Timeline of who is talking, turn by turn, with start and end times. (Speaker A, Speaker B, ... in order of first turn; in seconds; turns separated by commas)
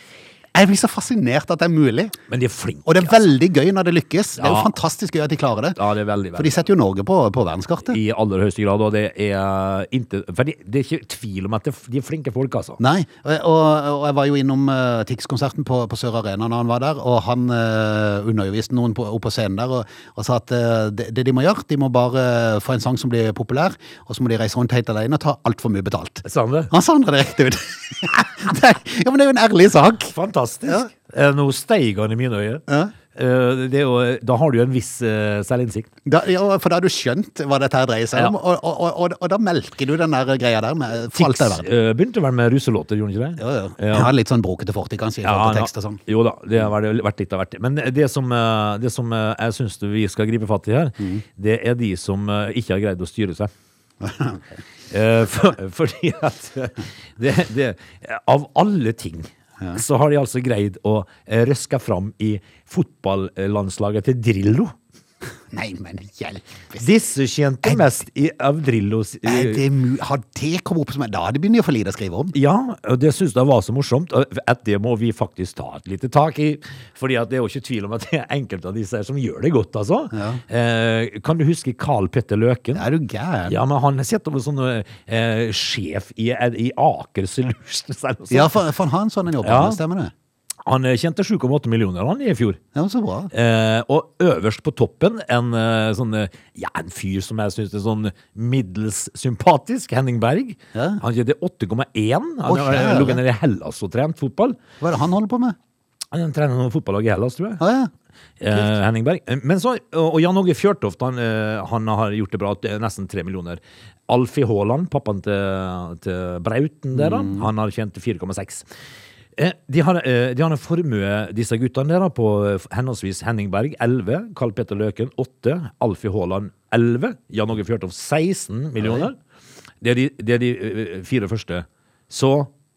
Speaker A: 0.5-2.1, Speaker B: 2.3-3.2, Speaker A: 2.8-5.8, Speaker B: 4.4-4.7, Speaker B: 5.8-6.7, Speaker A: 6.3-8.0, Speaker B: 7.9-12.8, Speaker A: 12.8-30.1, Speaker B: 26.2-26.7, Speaker B: 30.1-35.9, Speaker A: 32.7-32.9, Speaker A: 36.0-41.7, Speaker B: 41.1-44.1, Speaker A: 43.4-46.0, Speaker B: 45.2-53.5, Speaker A: 54.0-54.4, Speaker B: 54.9-64.7, Speaker A: 65.5-66.9, Speaker B: 66.8-69.6, Speaker A: 67.6-67.9, Speaker A: 69.2-72.3, Speaker B: 72.3-82.8, Speaker A: 80.1-80.4, Speaker A: 82.7-83.6, Speaker B: 83.5-88.6, Speaker A: 88.3-90.1, Speaker B: 89.4-89.8, Speaker B: 90.7-92.6, Speaker A: 92.7-93.3, Speaker B: 93.3-104.6, Speaker A: 100.7-101.0, Speaker A: 102.4-103.2, Speaker A: 104.8-105.5, Speaker B: 106.1-107.6, Speaker A: 107.6-107.9, Speaker B: 108.4-118.7, Speaker A: 117.0-117.5, Speaker B: 119.3-129.2, Speaker A: 128.8-129.1, Speaker B: 129.8-132.5